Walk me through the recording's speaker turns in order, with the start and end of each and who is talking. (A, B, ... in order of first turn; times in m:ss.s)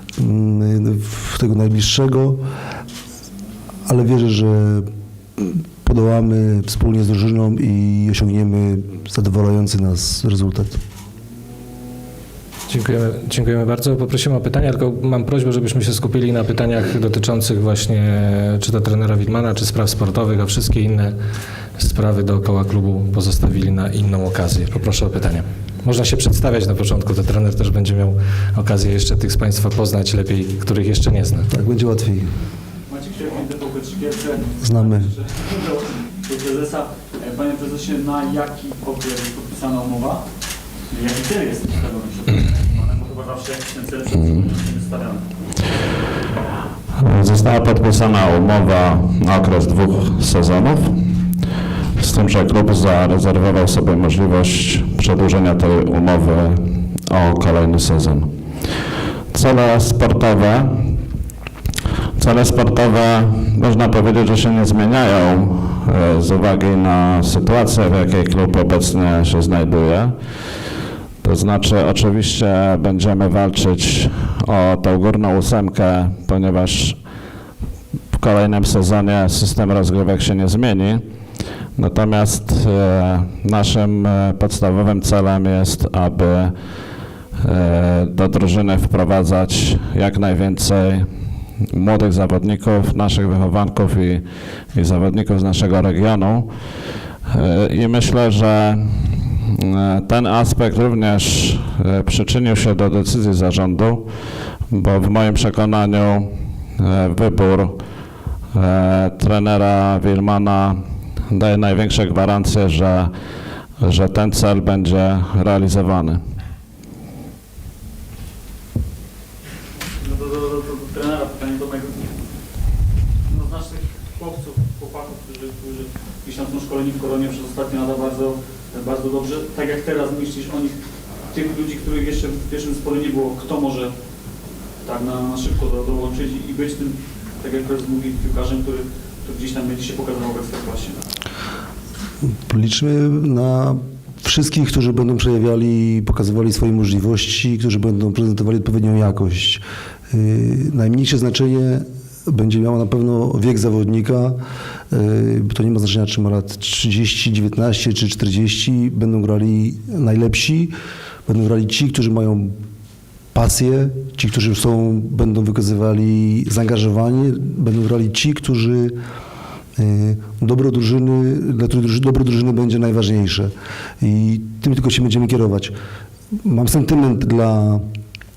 0:00.2-0:02.4 A
0:03.9-0:10.8 A
0:12.7-0:21.2 B
0:21.8-0:31.5 B
0:31.5-0:32.4 A
0:32.9-0:40.3 C
0:34.6-0:35.1 A
0:40.9-0:45.3 C
0:47.0-0:51.2 D
0:52.0-0:58.3 D
0:59.3-1:01.0 D
1:02.2-1:10.2 D
1:11.2-1:17.0 D
1:18.1-1:21.0 D
1:21.8-1:26.5 D
1:27.4-1:31.1 D
1:31.7-1:34.2 D
1:34.7-1:36.5 D
1:37.3-1:44.1 D
1:44.7-1:47.8 D
1:48.5-1:53.1 D
1:53.8-1:56.2 D
2:00.0-2:02.2 C
2:03.2-2:10.8 C
2:11.3-2:13.9 C
2:14.8-2:21.1 C
2:22.5-2:34.4 A
2:34.9-2:40.7 A
2:41.3-2:42.6 A
2:43.3-2:49.0 A
2:49.8-2:55.7 A
2:56.4-2:57.8 A